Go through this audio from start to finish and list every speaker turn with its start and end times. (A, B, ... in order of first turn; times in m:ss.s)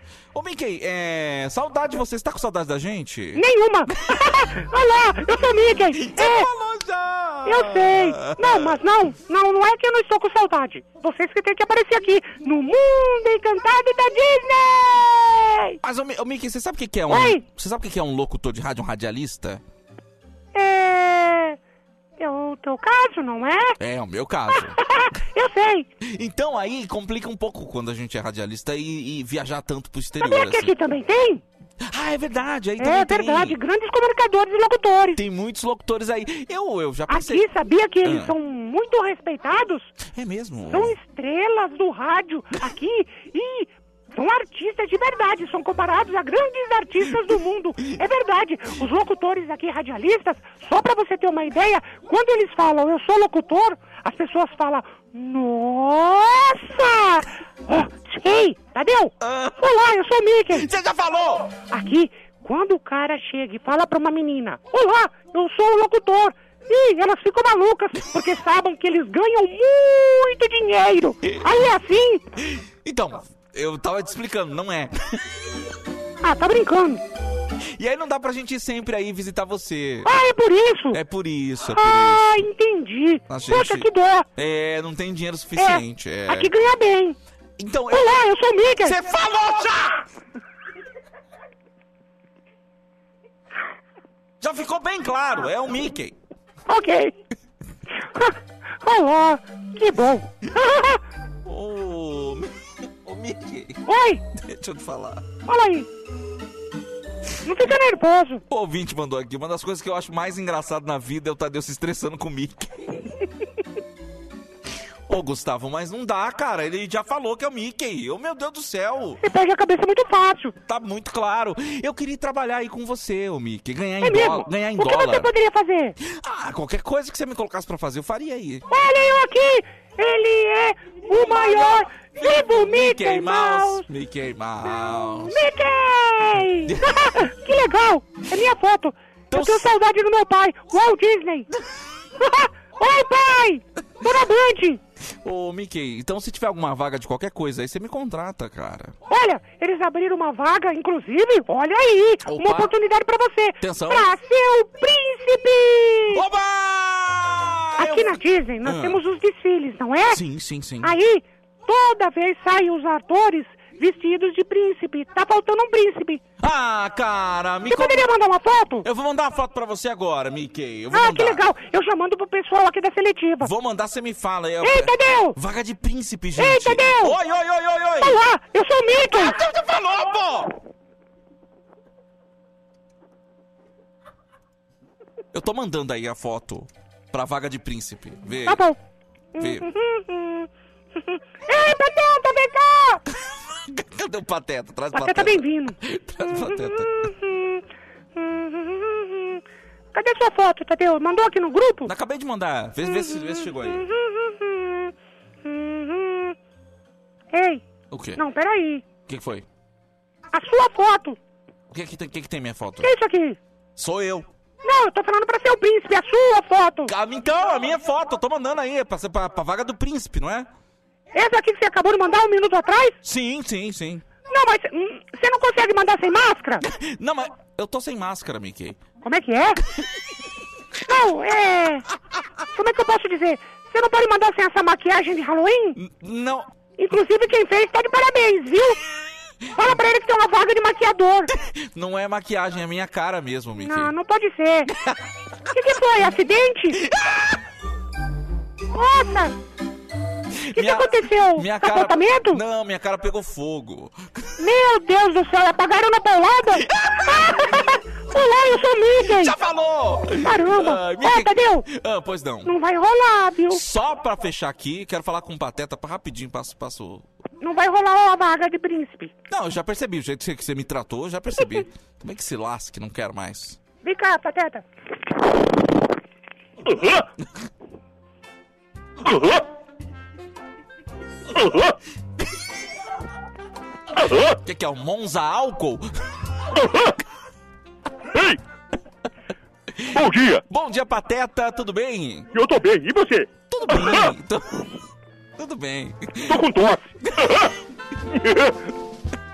0:00.3-0:03.4 A
0:03.4-0:06.5 B
0:04.0-0:04.3 A
0:05.9-0:08.8 A
0:07.4-0:15.8 B
0:15.8-0:19.6 A
0:17.1-0:17.4 B
0:20.5-0:21.6 B
0:22.2-0:23.8 B
0:23.8-0:24.8 A
0:24.6-0:25.9 B
0:26.0-0:30.7 A
0:30.2-0:31.4 B
0:31.8-0:33.6 A
0:32.8-0:35.2 B
0:35.2-0:37.4 A
0:37.1-0:39.9 B
0:38.0-0:38.4 A
0:40.1-0:41.0 A
0:40.7-1:00.7 B
0:59.2-0:59.6 A
1:00.5-1:01.5 A
1:01.7-1:12.2 B
1:12.4-1:15.2 A
1:16.2-1:17.0 B
1:17.6-1:20.1 A
1:20.0-1:21.0 B
1:20.9-1:22.4 A
1:21.7-1:24.3 B
1:23.3-1:26.5 A
1:25.6-1:27.2 B
1:27.6-1:28.2 A
1:27.9-1:29.0 B
1:28.8-1:30.0 A
1:34.4-1:36.2 A
1:36.7-1:37.1 B
1:38.0-1:41.0 B
1:41.4-1:43.8 A
1:43.9-1:44.2 B
1:44.4-1:45.2 A
1:45.5-1:45.9 B
1:47.4-1:48.4 B
1:48.5-1:53.0 A
1:55.1-1:59.2 A
1:59.2-2:00.6 B
2:00.7-2:05.3 A
2:04.0-2:06.0 B
2:06.0-2:08.7 A
2:08.7-2:13.9 B
2:11.1-2:15.4 A
2:14.8-2:21.5 B
2:16.7-2:17.2 A
2:19.3-2:19.7 A
2:22.2-2:24.8 B
2:25.2-2:29.0 A
2:29.1-2:36.2 B
2:32.2-2:32.7 A
2:33.6-2:34.1 A
2:36.1-2:39.0 A
2:37.8-2:40.2 B
2:40.1-2:41.0 A
2:40.8-2:46.2 B
2:46.4-2:48.1 A
2:47.7-2:48.9 B
2:48.8-2:51.4 A
2:50.9-2:53.5 B
2:53.4-2:58.2 A
2:54.6-2:55.4 B
2:56.4-2:57.2 B
2:58.0-2:59.4 B
2:59.1-3:00.6 A
3:05.3-3:08.6 A
3:08.4-3:08.8 B
3:09.4-3:10.5 B
3:09.4-3:09.7 A
3:11.0-3:13.0 B
3:13.2-3:17.1 A
3:14.9-3:15.8 B
3:16.3-3:17.6 B
3:18.2-3:19.4 B
3:19.9-3:21.9 B
3:21.8-3:23.8 A
3:22.8-3:26.4 B
3:27.3-3:27.6 B
3:27.9-3:28.2 A
3:28.2-3:28.9 B
3:29.1-3:29.5 A
3:30.3-3:31.2 B
3:31.7-3:32.9 A
3:32.8-3:33.4 B
3:33.8-3:34.3 A
3:34.6-3:36.9 B
3:36.9-3:40.5 A
3:41.1-3:43.0 B
3:43.0-3:44.0 A
3:44.3-3:46.6 B
3:46.6-3:48.8 A
3:49.0-3:49.6 B
3:50.9-3:51.8 B
3:52.5-3:55.8 B
3:55.8-3:56.5 A
3:56.8-3:58.8 B
3:59.6-4:01.3 B
4:01.3-4:03.9 A
4:03.6-4:04.7 B
4:05.5-4:06.8 B
4:06.8-4:07.4 A
4:08.7-4:09.3 B
4:10.4-4:14.3 A
4:10.6-4:12.4 B
4:14.4-4:19.4 B
4:16.6-4:17.5 A
4:19.1-4:22.5 A
4:20.2-4:21.7 B
4:22.4-4:23.6 B
4:23.5-4:27.0 A
4:27.4-4:29.1 B
4:29.3-4:33.6 A
4:33.8-4:34.6 B
4:36.7-4:37.0 C
4:39.0-4:39.4 C
4:41.3-4:41.8 C
4:44.0-4:44.4 C
4:44.3-4:45.9 A
4:46.6-4:47.0 C
4:48.1-4:48.4 C
4:49.9-4:50.4 C
4:50.5-4:52.3 A
4:52.3-4:54.1 C
4:53.5-4:54.7 A
4:55.4-4:56.4 A
4:56.2-4:57.5 C
4:57.1-4:57.4 A
4:58.1-4:58.6 C